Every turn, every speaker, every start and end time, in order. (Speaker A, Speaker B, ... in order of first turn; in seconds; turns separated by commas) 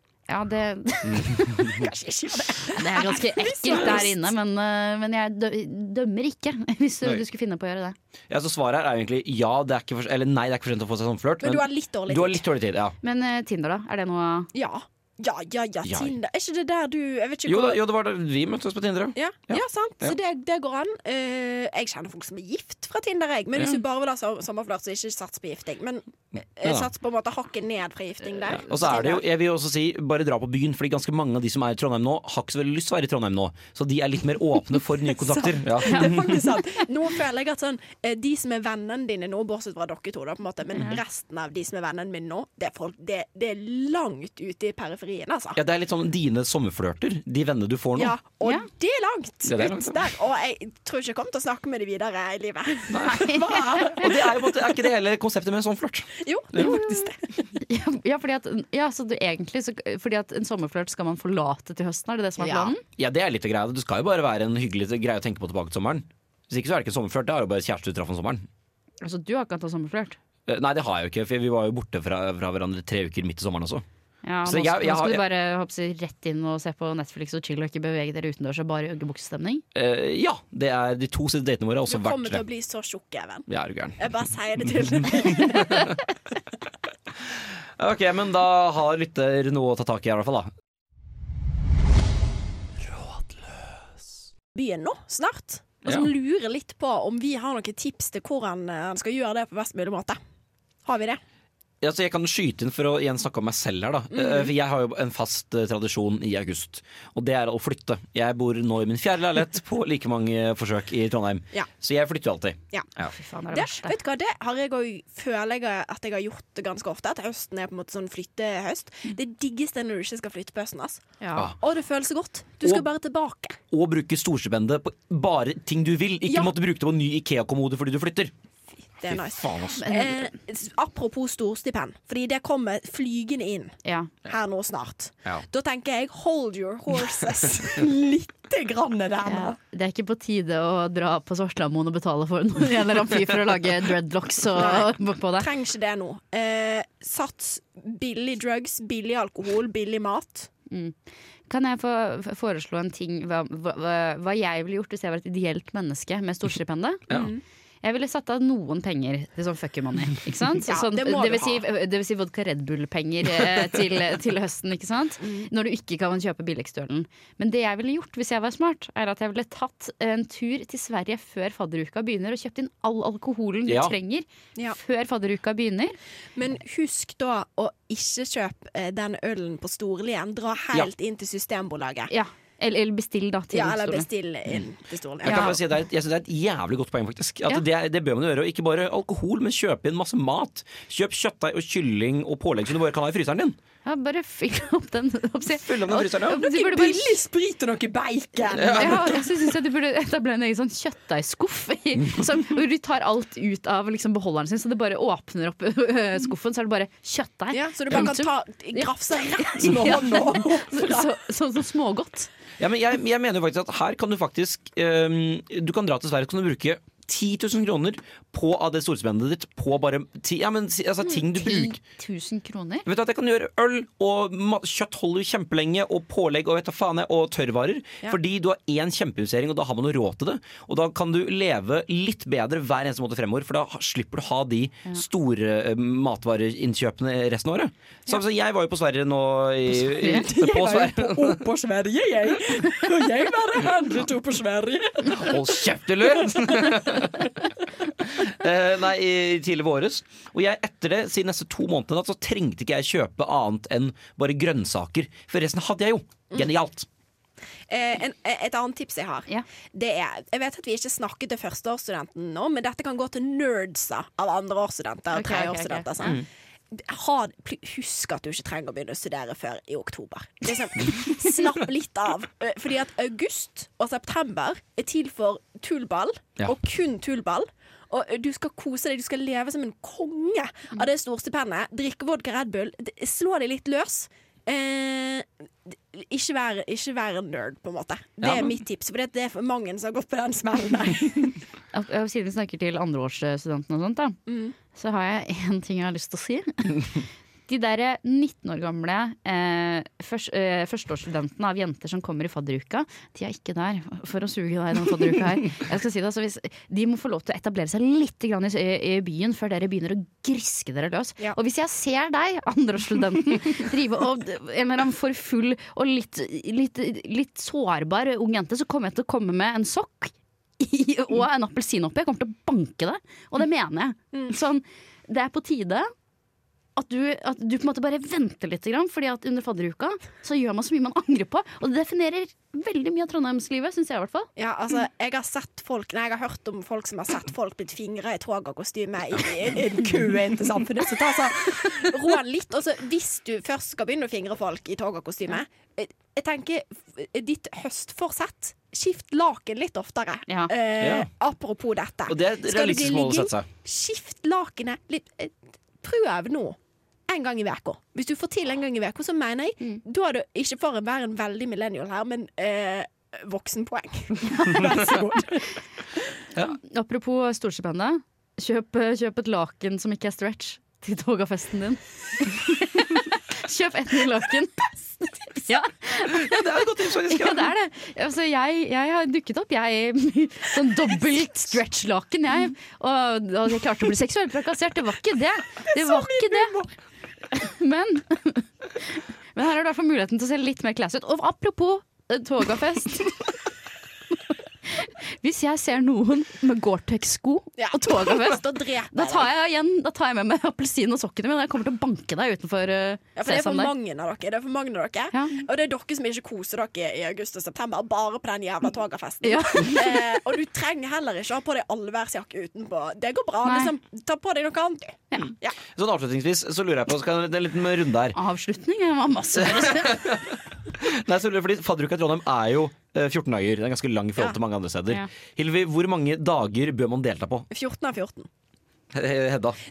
Speaker A: 0.3-1.9, Speaker B: 1.5-4.3, Speaker A: 2.7-8.0, Speaker C: 3.8-4.0, Speaker C: 8.3-12.9, Speaker B: 11.4-12.4, Speaker A: 13.0-14.5, Speaker B: 14.5-17.8, Speaker C: 15.8-16.1, Speaker C: 17.4-20.1, Speaker B: 19.1-26.0, Speaker B: 26.6-29.2, Speaker C: 26.6-26.9, Speaker C: 28.5-36.4, Speaker B: 35.1-45.6, Speaker C: 45.5-48.1, Speaker B: 48.0-54.1, Speaker C: 49.5-50.0, Speaker C: 52.9-56.8, Speaker A: 53.0-54.1, Speaker B: 56.2-57.3, Speaker A: 56.6-62.8, Speaker B: 62.4-62.7, Speaker C: 62.9-68.5, Speaker A: 69.0-70.2, Speaker C: 70.5-73.8, Speaker A: 74.2-79.6, Speaker C: 74.4-75.2, Speaker C: 79.7-82.4, Speaker B: 81.9-86.0, Speaker C: 83.5-84.1, Speaker C: 85.0-86.0, Speaker C: 87.3-90.5, Speaker C: 93.0-93.3, Speaker B: 94.5-100.2, Speaker B: 100.8-101.2, Speaker C: 101.8-113.1, Speaker B: 104.1-104.5, Speaker A: 113.0-113.9, Speaker B: 113.5-123.6, Speaker A: 121.2-121.5, Speaker C: 123.7-128.3, Speaker B: 126.3-126.5, Speaker B: 129.0-139.6, Speaker C: 129.1-129.8, Speaker A: 129.8-130.2, Speaker A: 133.8-134.1, Speaker A: 139.2-145.5, Speaker B: 144.5-150.5, Speaker A: 150.7-150.9, Speaker A: 151.5-157.0, Speaker B: 157.1-157.4, Speaker A: 157.8-175.9, Speaker B: 160.6-161.6, Speaker C: 173.7-173.9, Speaker B: 176.3-182.1, Speaker A: 182.1-184.1, Speaker B: 183.5-185.6, Speaker C: 185.2-193.6, Speaker A: 185.2-185.6, Speaker A: 193.8-197.2, Speaker C: 195.6-196.5, Speaker B: 196.3-199.2, Speaker C: 198.5-199.1, Speaker A: 198.7-212.3, Speaker B: 207.5-211.1, Speaker C: 212.6-221.8, Speaker A: 221.4-222.8, Speaker C: 222.8-241.5, Speaker A: 240.0-240.3, Speaker B: 240.0-245.5, Speaker C: 245.0-256.9, Speaker B: 246.1-246.8, Speaker B: 257.7-291.4, Speaker A: 265.1-265.9, Speaker C: 288.2-288.5, Speaker A: 291.7-294.2, Speaker B: 294.3-294.5, Speaker A: 294.7-325.9, Speaker A: 326.8-334.3, Speaker B: 334.4-356.6, Speaker C: 350.8-351.1, Speaker C: 352.1-353.5, Speaker B: 357.1-365.4, Speaker A: 364.2-365.0, Speaker A: 366.4-386.6, Speaker C: 375.9-377.5, Speaker B: 385.7-386.7, Speaker A: 387.3-393.3, Speaker A: 394.6-403.7, Speaker B: 397.6-399.3, Speaker B: 403.1-415.6, Speaker A: 405.1-405.4, Speaker A: 409.2-410.1, Speaker A: 413.4-413.7, Speaker C: 415.7-418.2, Speaker A: 418.1-420.1, Speaker C: 419.4-427.5, Speaker B: 427.5-428.3, Speaker C: 428.9-429.6